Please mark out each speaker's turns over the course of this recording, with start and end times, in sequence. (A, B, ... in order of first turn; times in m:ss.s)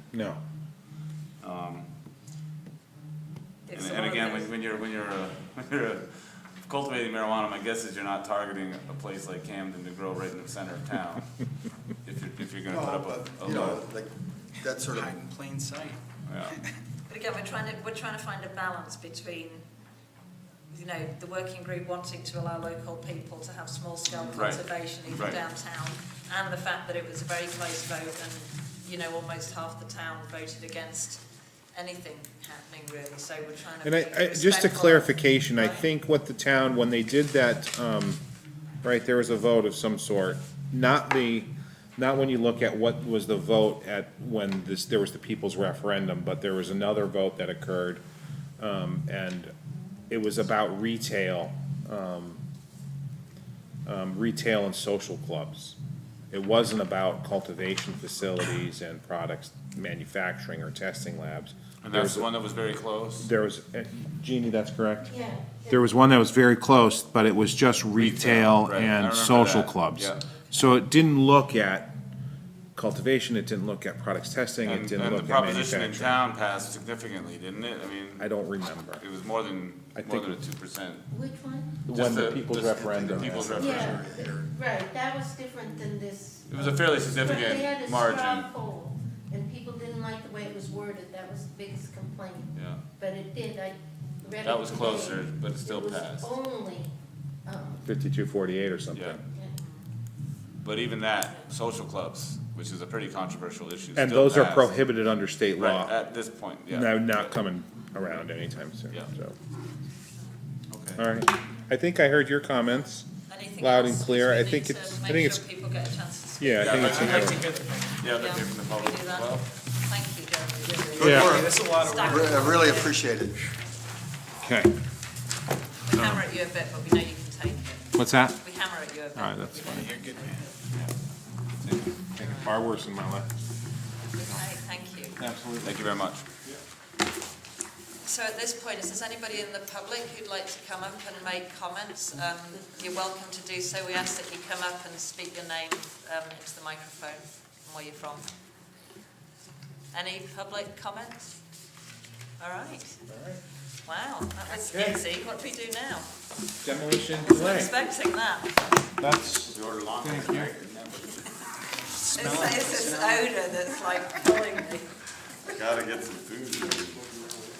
0:00.1-0:00.4 A
0:01.4-0:01.9 B
0:03.6-0:04.5 C
0:03.7-0:06.0 B
0:06.6-0:11.3 B
0:12.0-0:13.9 B
0:12.7-0:15.2 D
0:14.6-0:16.0 E
0:16.2-0:16.6 B
0:17.1-0:19.6 C
0:20.7-0:31.2 C
0:24.3-0:25.4 B
0:31.7-0:35.8 C
0:33.8-0:38.2 A
0:38.8-0:48.0 A
0:48.6-0:49.5 A
0:50.1-0:52.4 A
0:53.8-0:55.8 A
0:56.3-1:02.3 A
1:01.8-1:03.3 B
1:03.2-1:05.1 A
1:05.1-1:05.8 F
1:05.7-1:11.9 A
1:08.0-1:10.2 B
1:12.7-1:16.2 A
1:14.6-1:18.3 B
1:18.2-1:19.0 A
1:19.0-1:21.0 B
1:19.9-1:20.4 A
1:21.1-1:21.8 F
1:21.8-1:23.9 A
1:21.9-1:24.1 B
1:23.0-1:24.4 D
1:23.5-1:36.9 F
1:26.5-1:28.5 B
1:32.5-1:32.8 B
1:34.4-1:36.4 B
1:37.4-1:37.8 F
1:37.8-1:39.2 A
1:38.9-1:39.2 B
1:40.6-1:44.7 B
1:44.0-1:46.0 A
1:45.6-1:47.4 B
1:46.7-1:49.3 A
1:50.7-1:51.0 B
1:51.0-1:53.0 A
1:53.3-2:03.0 C
1:53.6-1:55.4 A
1:56.4-1:57.4 A
1:56.6-1:59.5 B
1:56.8-1:57.9 E
2:00.6-2:02.4 E
2:01.0-2:03.5 D
2:01.0-2:01.4 A
2:04.4-2:04.7 A
2:05.9-2:10.5 C
2:05.9-2:06.2 A
2:08.0-2:08.4 A
2:09.1-2:09.9 A
2:09.7-2:10.4 E
2:12.2-2:13.3 A
2:12.2-2:12.6 C
2:14.1-2:15.2 C
2:15.2-2:15.9 A
2:15.6-2:16.2 B
2:18.0-2:28.2 C
2:29.9-2:31.2 C
2:32.4-2:33.0 C
2:33.1-2:33.4 A
2:33.8-2:36.1 C
2:34.6-2:35.0 A
2:36.6-2:37.7 A
2:37.2-2:38.7 C
2:39.0-2:40.5 A
2:39.5-2:41.3 B
2:42.1-2:43.3 E
2:42.1-2:44.9 C
2:45.5-2:47.0 B